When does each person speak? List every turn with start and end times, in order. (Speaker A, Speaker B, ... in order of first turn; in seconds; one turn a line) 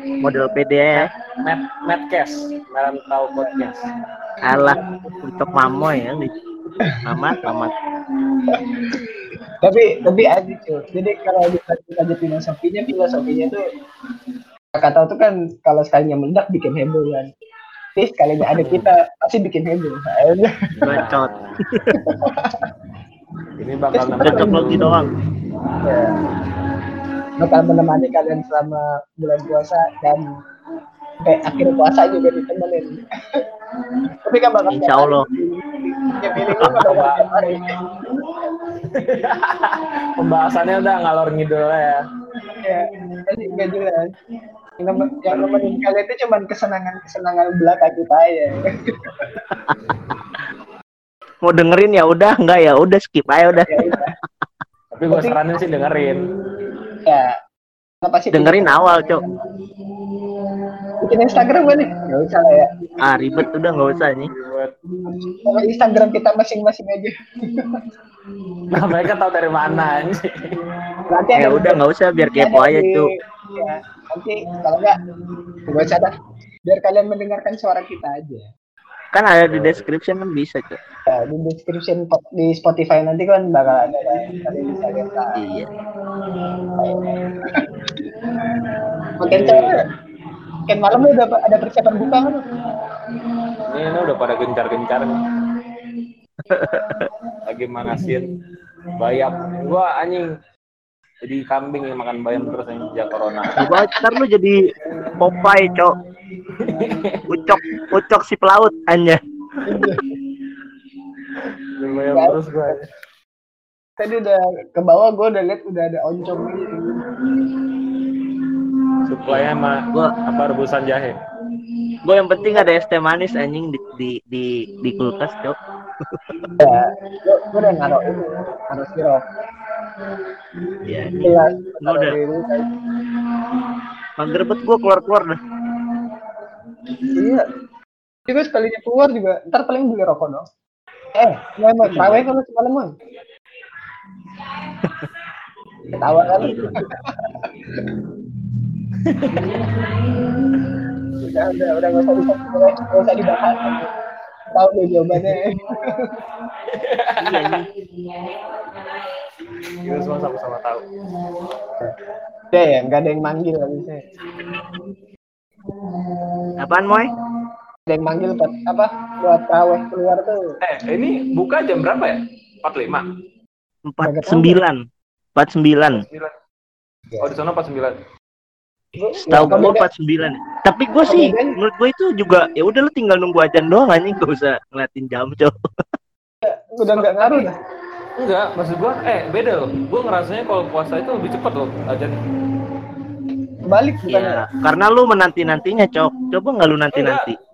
Speaker A: 0.2-1.1
Speaker B: 1.0-3.8
Speaker A: 4.5-6.3
Speaker A: 7.0-7.7
Speaker C: 9.6-13.6
Speaker C: 14.8-17.3
Speaker C: 18.0-21.0
Speaker B: 18.5-18.9
Speaker B: 20.8-21.6
Speaker A: 20.8-21.9
Speaker C: 22.0-22.6
Speaker B: 23.6-24.9
Speaker C: 23.9-25.0
Speaker A: 24.2-25.1
Speaker C: 25.8-26.2
Speaker C: 27.4-30.2
Speaker C: 31.2-33.0
Speaker C: 34.2-37.7
Speaker A: 34.7-35.3
Speaker B: 36.4-42.0
Speaker C: 42.6-44.1
Speaker C: 44.8-49.4
Speaker B: 45.3-45.6
Speaker B: 49.7-50.0
Speaker A: 51.4-53.9
Speaker C: 53.7-54.1
Speaker B: 54.9-56.2
Speaker C: 55.1-55.4
Speaker C: 57.0-57.3
Speaker C: 58.0-58.8
Speaker A: 58.3-59.2
Speaker C: 61.0-62.7
Speaker A: 63.0-64.3
Speaker B: 64.3-64.7
Speaker C: 65.5-67.7
Speaker B: 68.7-70.3
Speaker C: 71.1-71.8
Speaker A: 71.4-73.1
Speaker C: 72.3-75.0
Speaker C: 75.7-76.1
Speaker C: 76.7-78.5
Speaker A: 79.1-80.8
Speaker B: 79.5-79.9
Speaker C: 81.1-85.3
Speaker A: 85.3-85.7
Speaker C: 86.8-87.1
Speaker C: 89.2-89.8
Speaker B: 89.3-89.8
Speaker C: 90.7-92.5
Speaker B: 93.7-95.2
Speaker A: 96.5-97.1
Speaker B: 97.5-98.3
Speaker B: 99.0-100.3
Speaker B: 101.2-103.8
Speaker A: 103.6-104.6
Speaker A: 105.2-106.0
Speaker B: 106.6-107.2
Speaker A: 107.3-109.2
Speaker C: 109.7-110.1
Speaker B: 111.8-112.9
Speaker C: 112.1-112.7
Speaker C: 114.0-117.0
Speaker B: 119.0-121.2
Speaker A: 119.2-120.1
Speaker A: 122.0-125.5
Speaker C: 126.6-129.2
Speaker A: 130.8-132.2
Speaker C: 131.2-132.7
Speaker A: 134.2-135.4
Speaker C: 137.2-137.5
Speaker C: 138.3-140.4
Speaker C: 141.2-142.9
Speaker A: 141.8-142.2
Speaker C: 146.0-146.7
Speaker A: 146.4-146.8
Speaker B: 149.1-149.9
Speaker C: 151.2-153.8
Speaker B: 153.4-153.7
Speaker C: 154.5-155.9
Speaker B: 156.7-157.6
Speaker A: 157.2-157.6
Speaker B: 159.8-160.9
Speaker C: 162.5-164.1
Speaker A: 166.6-167.1
Speaker C: 167.9-170.4
Speaker B: 170.6-173.1
Speaker A: 173.9-174.8
Speaker C: 174.0-174.6
Speaker A: 175.4-176.0
Speaker B: 175.9-176.3
Speaker B: 177.2-178.0
Speaker C: 179.0-179.9
Speaker A: 179.3-185.5
Speaker C: 181.1-181.6
Speaker C: 186.4-187.5
Speaker B: 186.9-187.5
Speaker B: 188.2-192.2
Speaker C: 193.7-194.4
Speaker A: 194.1-197.4
Speaker B: 196.9-197.3